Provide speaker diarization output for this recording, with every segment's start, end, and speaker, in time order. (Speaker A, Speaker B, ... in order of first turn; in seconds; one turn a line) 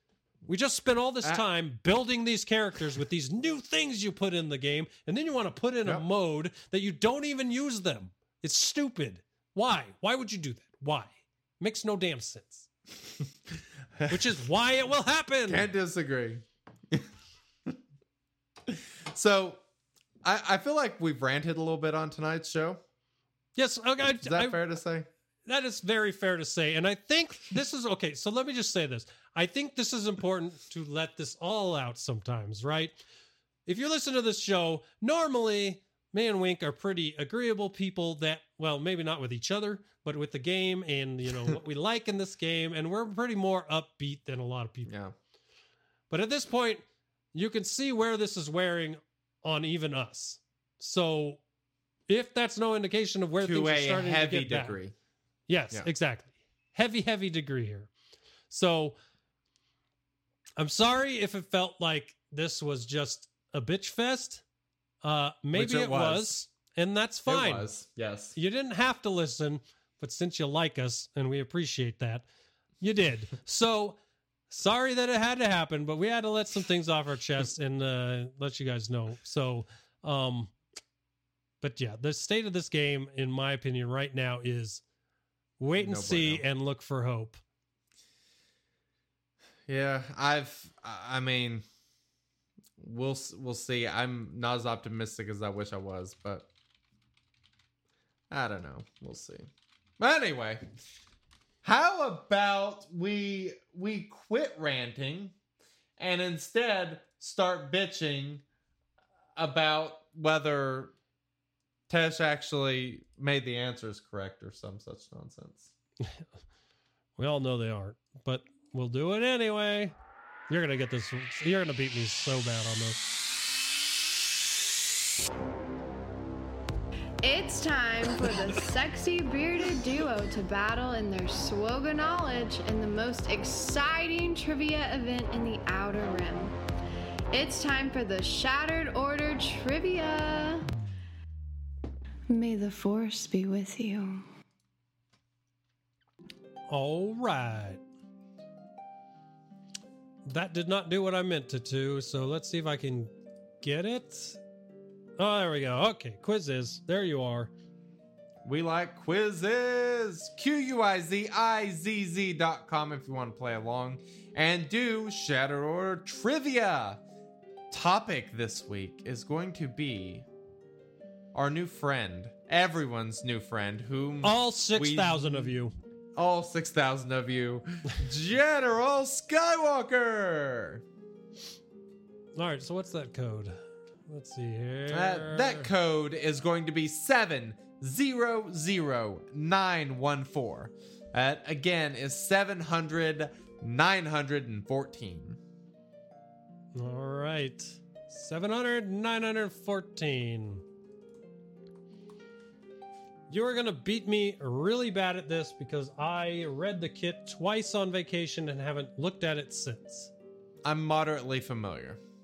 Speaker A: 0.5-12.7
Speaker A: 14.0-15.7
Speaker B: 15.5-17.1
Speaker B: 18.7-19.6
Speaker B: 20.2-22.8
Speaker A: 23.6-24.6
Speaker B: 24.2-25.1
Speaker A: 25.4-33.0
Speaker A: 33.6-44.9
Speaker B: 44.9-45.1
Speaker A: 46.1-51.4
Speaker A: 52.1-54.8
Speaker B: 53.4-54.9
Speaker A: 55.5-57.9
Speaker A: 58.5-59.0
Speaker A: 60.6-64.4
Speaker A: 65.0-67.7
Speaker B: 65.5-66.3
Speaker B: 67.3-68.3
Speaker A: 68.3-72.2
Speaker A: 72.8-74.0
Speaker A: 74.5-80.5
Speaker A: 81.6-84.8
Speaker A: 85.6-87.4
Speaker B: 85.8-86.4
Speaker B: 89.7-91.6
Speaker B: 92.8-96.5
Speaker B: 98.3-100.6
Speaker B: 101.6-105.3
Speaker B: 106.0-108.4
Speaker B: 109.3-110.9
Speaker B: 111.9-115.7
Speaker A: 117.2-120.0
Speaker A: 120.5-123.0
Speaker C: 127.2-136.6
Speaker C: 137.3-140.7
Speaker C: 142.3-144.2
Speaker A: 146.7-147.8
Speaker A: 150.2-154.4
Speaker A: 155.2-157.5
Speaker B: 158.4-167.0
Speaker B: 167.7-170.2
Speaker B: 171.3-175.6
Speaker A: 174.2-175.7
Speaker B: 176.1-180.8
Speaker A: 182.3-185.7
Speaker B: 184.9-195.4
Speaker A: 196.7-200.6
Speaker A: 203.3-210.1
Speaker B: 210.6-212.0